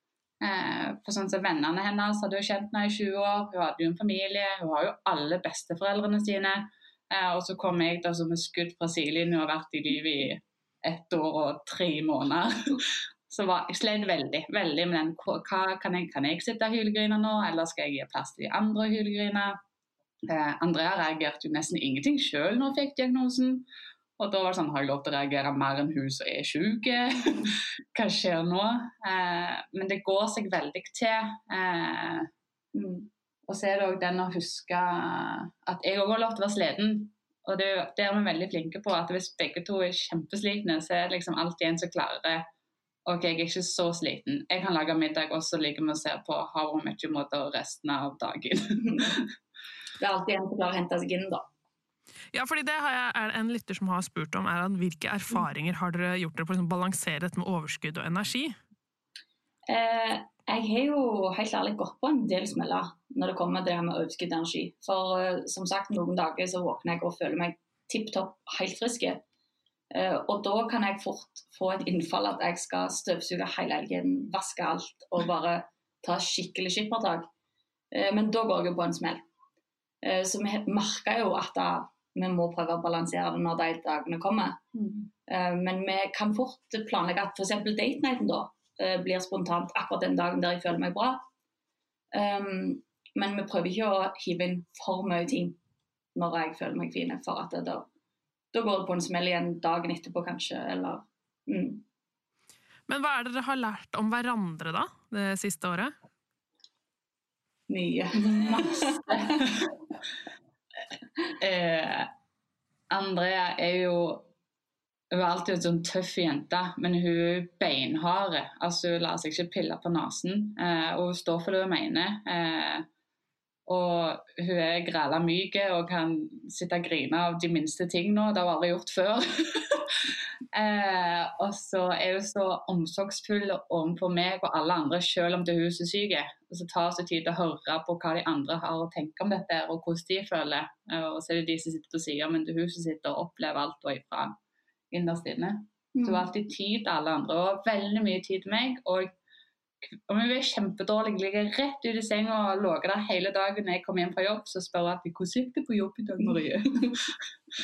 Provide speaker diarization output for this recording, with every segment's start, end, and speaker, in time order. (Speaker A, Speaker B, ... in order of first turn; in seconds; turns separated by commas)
Speaker A: 0.4-19.6, Speaker A: 20.3-23.7, Speaker A: 24.2-32.3, Speaker B: 32.7-33.1, Speaker A: 33.5-42.5, Speaker A: 43.1-49.3, Speaker B: 50.0-51.5, Speaker C: 52.3-58.6, Speaker B: 59.7-69.2, Speaker B: 69.9-77.3, Speaker B: 77.9-79.2, Speaker B: 80.0-84.6, Speaker A: 84.7-85.1, Speaker B: 85.3-91.2, Speaker B: 92.1-95.6, Speaker B: 96.2-97.9, Speaker B: 98.5-101.8, Speaker C: 102.9-105.9, Speaker B: 107.7-109.5, Speaker A: 108.2-109.7, Speaker A: 111.4-112.1, Speaker A: 112.9-114.3, Speaker A: 115.1-122.9, Speaker A: 123.7-144.3, Speaker A: 144.9-149.1, Speaker B: 145.9-146.3, Speaker A: 149.8-157.2